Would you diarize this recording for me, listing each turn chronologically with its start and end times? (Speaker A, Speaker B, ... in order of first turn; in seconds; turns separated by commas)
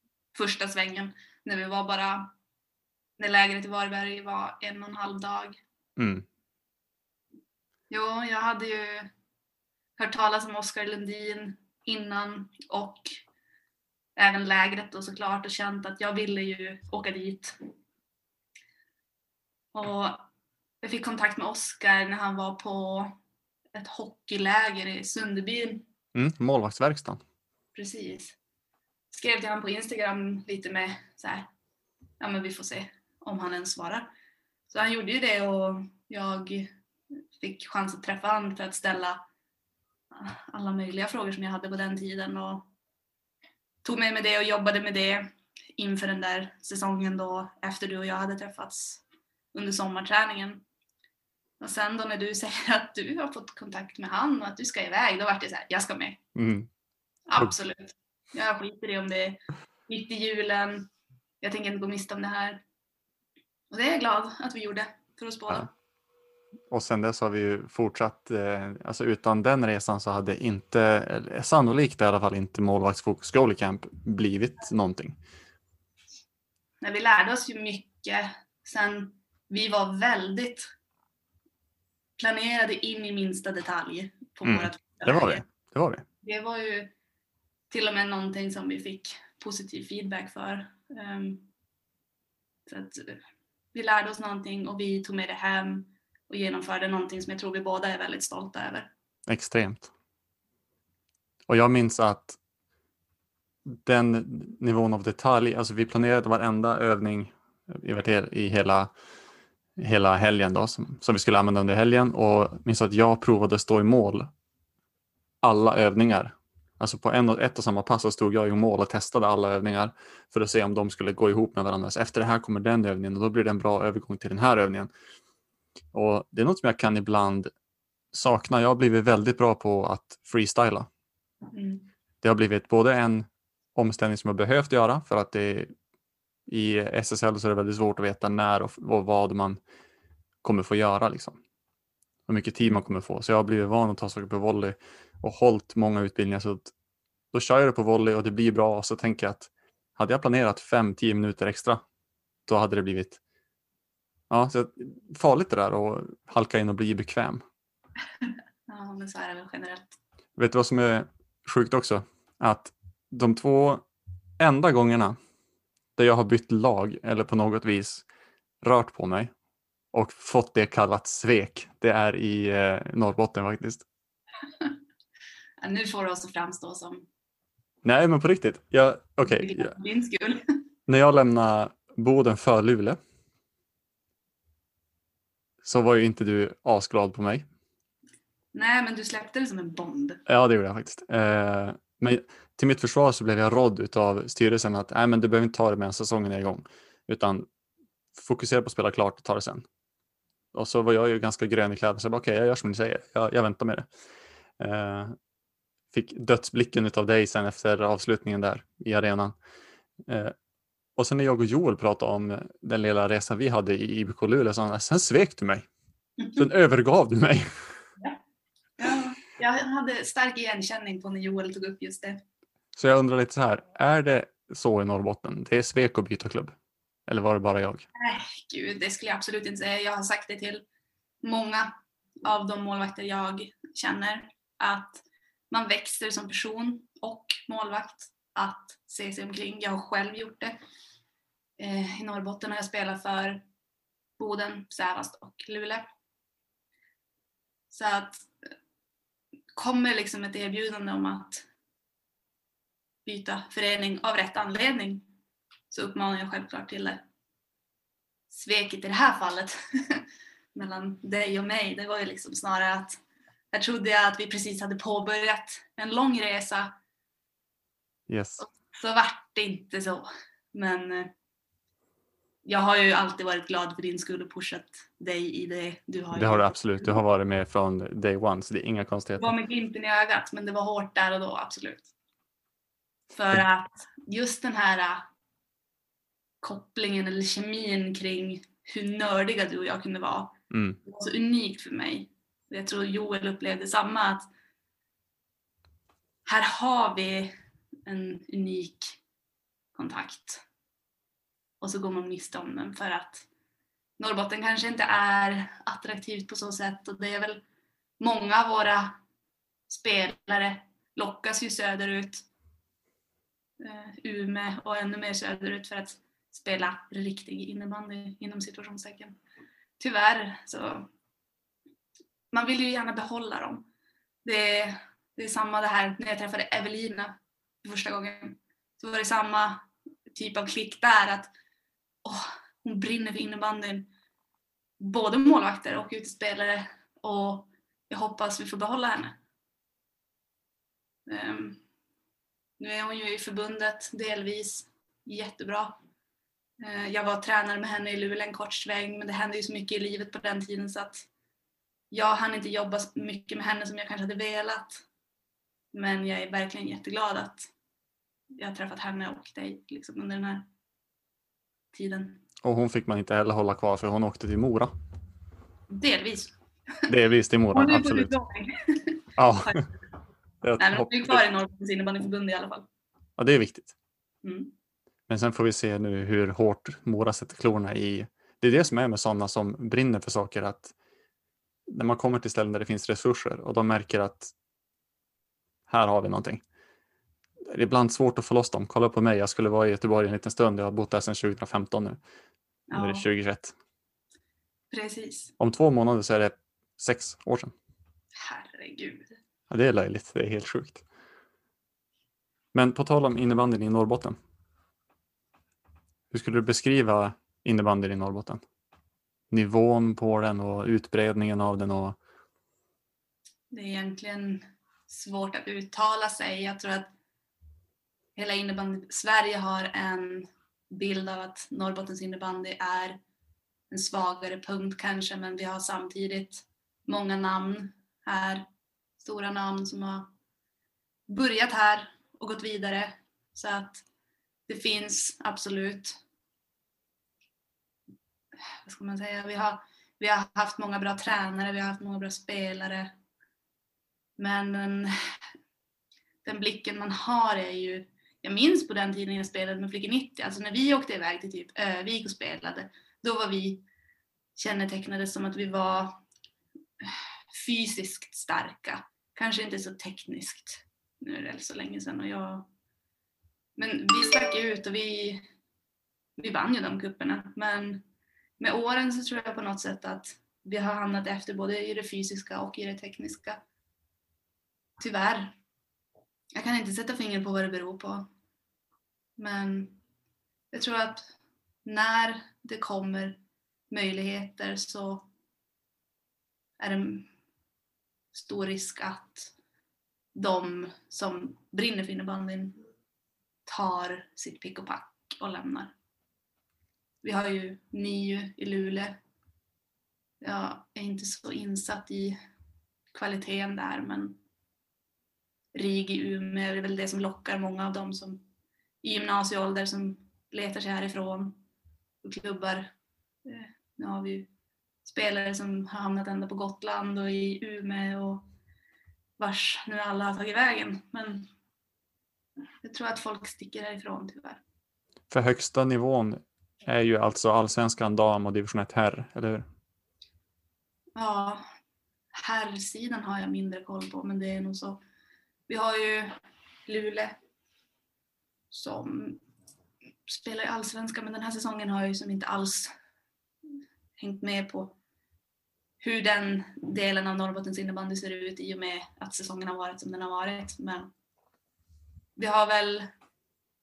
Speaker A: 0.3-2.3, Speaker A: 3.2-5.6, Speaker B: 6.0-6.2, Speaker A: 7.9-9.1, Speaker A: 10.0-13.2, Speaker A: 14.2-17.6, Speaker A: 19.7-20.2, Speaker A: 20.8-23.1, Speaker A: 23.7-25.9, Speaker B: 26.1-27.2, Speaker A: 27.7-28.4, Speaker A: 29.1-31.5, Speaker A: 32.2-34.1, Speaker A: 34.7-36.7, Speaker A: 37.4-39.2, Speaker A: 40.1-42.7, Speaker A: 43.8-50.6, Speaker A: 51.6-56.2, Speaker B: 56.3-56.7, Speaker A: 57.3-60.9, Speaker A: 61.4-62.6, Speaker A: 63.7-65.7, Speaker B: 66.7-75.2, Speaker A: 76.8-80.7, Speaker A: 82.2-85.4, Speaker B: 84.4-86.0, Speaker A: 86.2-86.9, Speaker A: 87.7-91.5, Speaker A: 92.7-93.2, Speaker A: 93.7-98.9, Speaker B: 99.3-99.9, Speaker B: 101.5-102.4, Speaker B: 103.7-108.9, Speaker B: 109.8-114.3, Speaker B: 115.4-124.9, Speaker B: 125.9-127.5, Speaker B: 128.1-130.9, Speaker A: 131.5-131.8, Speaker B: 132.2-135.7, Speaker B: 136.5-139.6, Speaker B: 140.4-141.4, Speaker B: 142.3-146.7, Speaker B: 147.3-151.8, Speaker B: 152.5-153.2, Speaker B: 154.3-157.4, Speaker A: 158.2-160.0, Speaker B: 160.4-163.8, Speaker B: 164.4-165.2, Speaker B: 165.9-168.0, Speaker B: 168.6-169.3, Speaker B: 169.9-173.8, Speaker A: 175.6-177.1, Speaker B: 177.8-179.7, Speaker A: 179.2-180.6, Speaker B: 180.9-183.0, Speaker B: 185.6-187.4, Speaker A: 188.5-190.2, Speaker B: 190.3-197.5, Speaker B: 198.1-199.6, Speaker B: 200.5-203.9, Speaker B: 204.6-205.1, Speaker B: 205.9-209.3, Speaker B: 210.1-210.3, Speaker B: 211.0-215.7, Speaker B: 216.3-217.5, Speaker A: 218.8-222.2, Speaker B: 222.8-226.5, Speaker B: 227.1-227.8, Speaker A: 227.9-230.6, Speaker A: 231.2-231.7, Speaker A: 232.2-240.6, Speaker A: 241.6-243.4, Speaker A: 244.2-245.8, Speaker A: 247.7-248.5, Speaker A: 249.5-251.5, Speaker A: 253.0-255.0, Speaker A: 255.7-257.0, Speaker A: 258.3-263.0, Speaker A: 263.5-266.7, Speaker B: 268.1-268.5, Speaker A: 268.4-271.1, Speaker A: 272.4-277.0, Speaker B: 276.1-279.3, Speaker A: 279.2-281.9, Speaker A: 283.1-285.1, Speaker A: 286.4-294.3, Speaker B: 290.5-290.8, Speaker A: 296.2-297.3, Speaker A: 297.9-299.0, Speaker A: 299.7-300.4, Speaker A: 301.6-303.3, Speaker A: 304.0-307.4, Speaker A: 308.0-309.0, Speaker A: 309.7-312.2, Speaker A: 313.6-319.2, Speaker A: 319.8-320.9, Speaker A: 322.3-323.7, Speaker A: 324.2-331.3, Speaker A: 332.0-333.9, Speaker A: 334.8-339.2, Speaker A: 341.1-341.6, Speaker A: 342.6-345.8, Speaker A: 346.6-351.1, Speaker A: 351.9-354.8, Speaker A: 355.7-357.5, Speaker A: 358.4-360.5, Speaker A: 361.7-362.2, Speaker B: 362.4-364.7, Speaker A: 365.7-366.9, Speaker B: 366.9-368.1, Speaker A: 367.5-369.7, Speaker B: 369.2-369.6, Speaker B: 370.4-371.2, Speaker A: 370.6-372.6, Speaker B: 373.2-373.7, Speaker A: 374.2-374.5, Speaker B: 375.1-380.7, Speaker B: 381.7-384.3, Speaker B: 385.7-386.4, Speaker B: 387.5-392.0, Speaker A: 392.7-393.0, Speaker B: 392.7-393.5, Speaker A: 394.7-395.3, Speaker B: 395.4-397.5, Speaker A: 398.1-399.2, Speaker B: 399.5-400.8, Speaker B: 402.5-404.2, Speaker B: 406.1-408.4, Speaker B: 409.3-412.0, Speaker A: 413.5-416.9, Speaker A: 418.1-423.0, Speaker A: 423.7-428.4, Speaker A: 429.0-430.1, Speaker A: 431.1-433.8, Speaker A: 434.5-436.0, Speaker A: 438.6-442.9, Speaker A: 444.2-444.9, Speaker A: 446.2-453.6, Speaker A: 454.4-456.0, Speaker A: 456.8-462.5, Speaker A: 463.6-465.2, Speaker A: 466.2-467.8, Speaker A: 468.4-473.4, Speaker A: 474.8-475.4, Speaker A: 476.3-478.1, Speaker A: 479.2-479.8, Speaker A: 480.5-481.1, Speaker A: 481.6-483.2, Speaker A: 483.7-485.1, Speaker A: 486.6-487.1, Speaker A: 488.1-489.3, Speaker A: 490.1-492.6, Speaker A: 493.4-495.7, Speaker A: 497.0-499.0, Speaker A: 500.2-502.1, Speaker A: 502.9-504.2, Speaker A: 505.5-508.2, Speaker A: 508.8-511.4, Speaker A: 512.0-512.7, Speaker A: 513.2-514.3, Speaker A: 514.8-518.2, Speaker A: 519.2-521.2, Speaker A: 522.6-524.4, Speaker B: 525.1-529.4, Speaker A: 531.0-531.4, Speaker A: 532.1-534.8, Speaker A: 535.5-537.1, Speaker A: 538.5-539.2, Speaker A: 540.0-542.7, Speaker A: 544.0-544.8, Speaker A: 545.8-550.9, Speaker A: 552.1-552.9